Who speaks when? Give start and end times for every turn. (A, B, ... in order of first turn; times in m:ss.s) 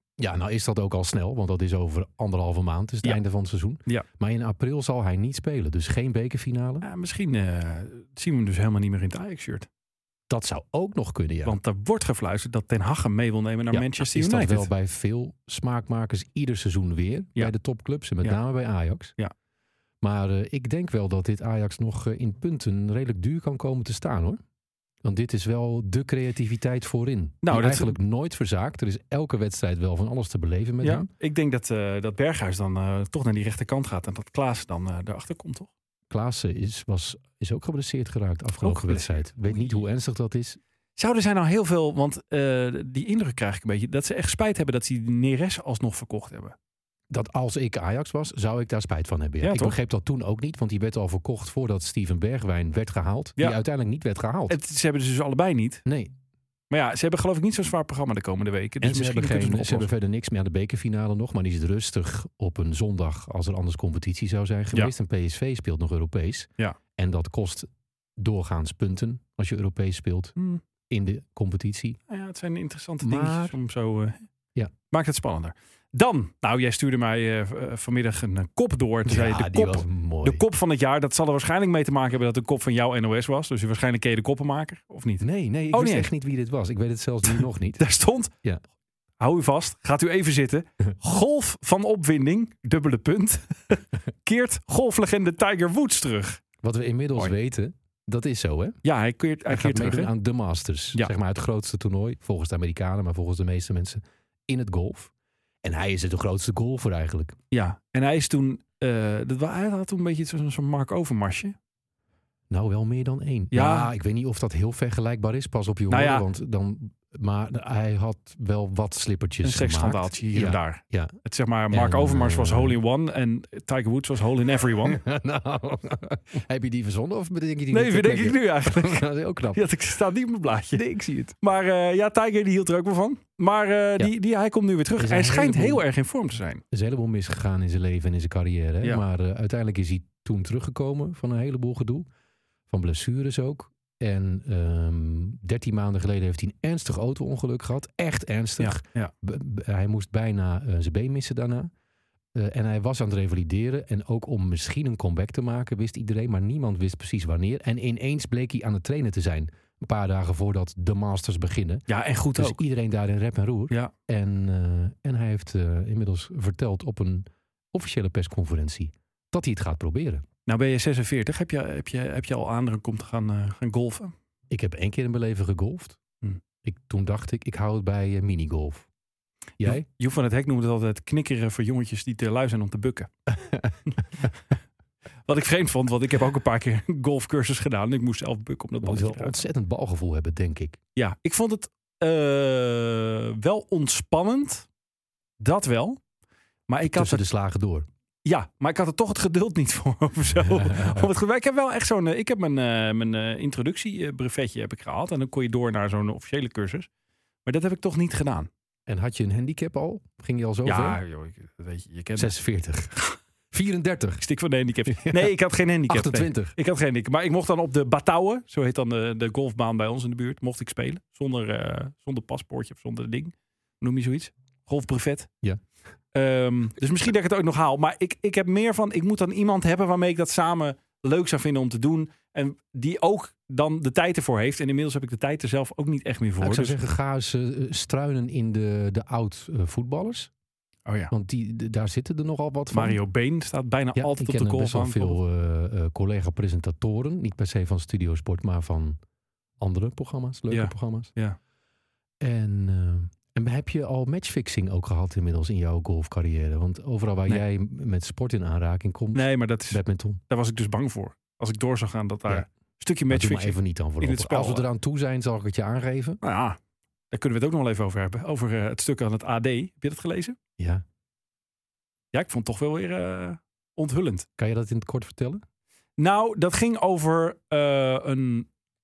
0:00.2-0:06.9 A
0:06.8-0:09.7 B
0:10.3-0:11.6 A
0:11.4-0:14.7 B
0:13.7-0:19.1 A
0:20.0-0:24.4 A
0:25.0-0:31.1 A
0:27.4-0:27.9 B
0:30.8-0:35.7 B
0:36.1-0:40.6 A
0:38.6-0:39.8 B
0:41.0-0:46.6 B
0:47.1-0:54.6 A
0:49.4-0:49.8 B
0:53.4-0:53.6 B
0:54.5-0:55.8 B
0:55.8-0:56.1 A
0:56.7-0:59.9 B
0:58.8-1:10.3 A
1:10.4-1:10.6 B
1:10.9-1:12.0 A
1:12.1-1:14.2 B
1:13.0-1:13.6 A
1:14.9-1:26.1 B
1:19.0-1:20.4 A
1:25.2-1:27.8 A
1:27.3-1:28.3 B
1:29.2-1:36.4 B
1:36.6-1:38.8 A
1:38.8-1:40.1 B
1:39.5-1:45.1 A
1:45.6-1:47.4 A
1:47.5-1:51.6 B
1:52.5-2:01.1 A
1:53.5-1:53.9 B
1:55.9-1:56.2 B
1:59.4-2:05.0 B
2:01.7-2:02.8 A
2:04.8-2:09.6 A
2:07.7-2:10.8 B
2:10.7-2:11.4 A
2:11.4-2:16.6 B
2:15.0-2:15.8 A
2:16.7-2:22.1 A
2:22.7-2:31.7 A
2:28.6-2:29.1 B
2:32.3-2:50.2 A
2:41.9-2:42.6 B
2:50.4-2:54.1 B
2:54.5-2:56.0 A
2:56.6-2:58.9 A
2:59.6-2:59.8 A
2:59.6-3:03.1 B
3:03.3-3:03.8 A
3:05.2-3:09.4 B
3:08.8-3:10.8 A
3:11.0-3:14.7 B
3:15.4-3:16.0 B
3:16.7-3:17.2 B
3:16.8-3:17.9 A
3:18.2-3:26.9 B
3:20.6-3:21.0 A
3:27.4-3:28.5 B
3:28.9-3:31.0 A
3:30.6-3:32.3 B
3:32.2-3:33.0 A
3:33.5-3:34.2 A
3:34.2-3:45.3 B
3:34.9-3:35.3 A
3:35.9-3:36.5 A
3:46.1-3:56.8 B
3:56.4-4:00.3 A
4:00.8-4:01.1 B
4:01.1-4:03.0 A
4:02.7-4:05.2 B
4:03.9-4:09.0 A
4:09.6-4:11.1 A
4:10.5-4:11.4 B
4:12.2-4:20.2 A
4:19.1-4:24.7 B
4:23.1-4:26.2 A
4:26.2-4:26.6 B
4:27.1-4:30.4 B
4:30.6-4:30.8 A
4:32.1-4:34.3 B
4:34.4-4:35.4 A
4:36.0-4:38.5 B